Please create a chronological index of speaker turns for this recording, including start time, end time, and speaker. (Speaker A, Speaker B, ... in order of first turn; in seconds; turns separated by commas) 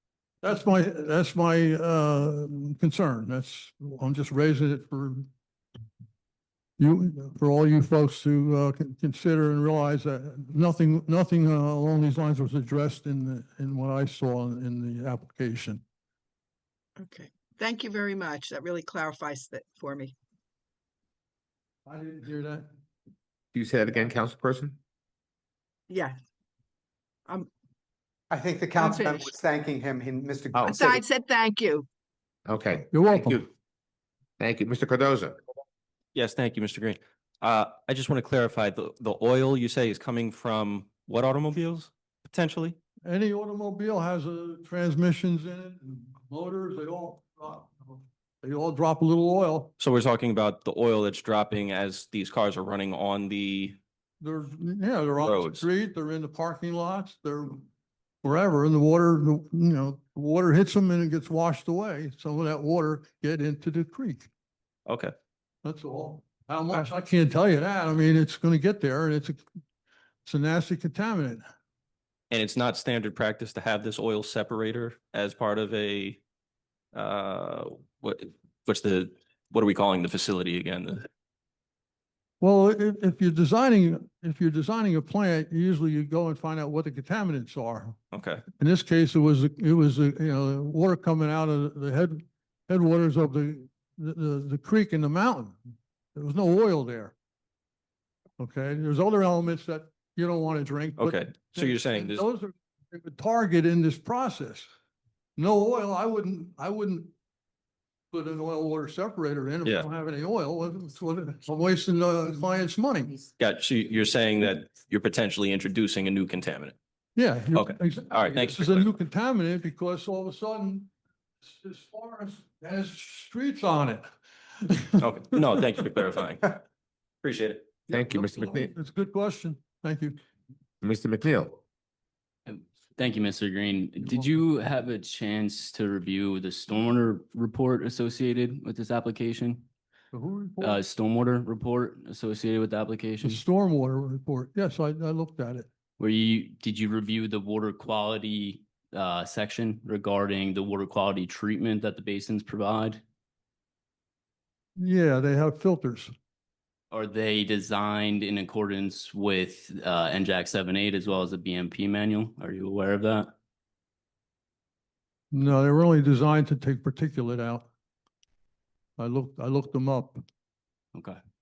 Speaker A: 0.4-5.3, Speaker A: 6.8-15.8, Speaker B: 17.0-20.1, Speaker A: 21.9-22.7, Speaker C: 23.5-24.8, Speaker B: 25.9-26.2, Speaker D: 28.3-31.0, Speaker B: 28.7-29.3, Speaker C: 30.5-30.9, Speaker B: 30.6-31.9, Speaker C: 32.5-33.5, Speaker A: 32.9-33.5, Speaker C: 34.4-35.4, Speaker E: 36.1-42.8, Speaker A: 43.0-49.7, Speaker E: 49.8-53.8, Speaker A: 54.2-57.6, Speaker E: 55.2-55.7, Speaker A: 58.2-64.3, Speaker E: 64.8-65.1, Speaker A: 65.6-69.4, Speaker A: 70.2-71.4, Speaker E: 72.3-76.2, Speaker E: 76.9-81.1, Speaker A: 82.4-88.0, Speaker E: 88.1-88.4, Speaker A: 88.6-95.5, Speaker A: 96.1-97.1, Speaker A: 98.4-104.7, Speaker E: 101.0-102.3, Speaker A: 105.4-107.1, Speaker A: 108.1-113.2, Speaker E: 109.6-109.9, Speaker E: 113.4-116.8, Speaker A: 117.2-120.9, Speaker E: 117.5-118.9, Speaker A: 121.4-124.0, Speaker A: 124.6-125.4, Speaker E: 125.0-126.6, Speaker E: 127.2-127.8, Speaker A: 127.9-130.2, Speaker C: 127.9-128.7, Speaker C: 130.8-131.6, Speaker F: 132.4-139.6, Speaker A: 140.1-140.8, Speaker F: 140.6-143.4, Speaker A: 143.2-145.7, Speaker F: 146.0-153.0, Speaker A: 154.8-156.1, Speaker F: 156.9-163.3, Speaker A: 165.3-167.7, Speaker A: 169.0-170.2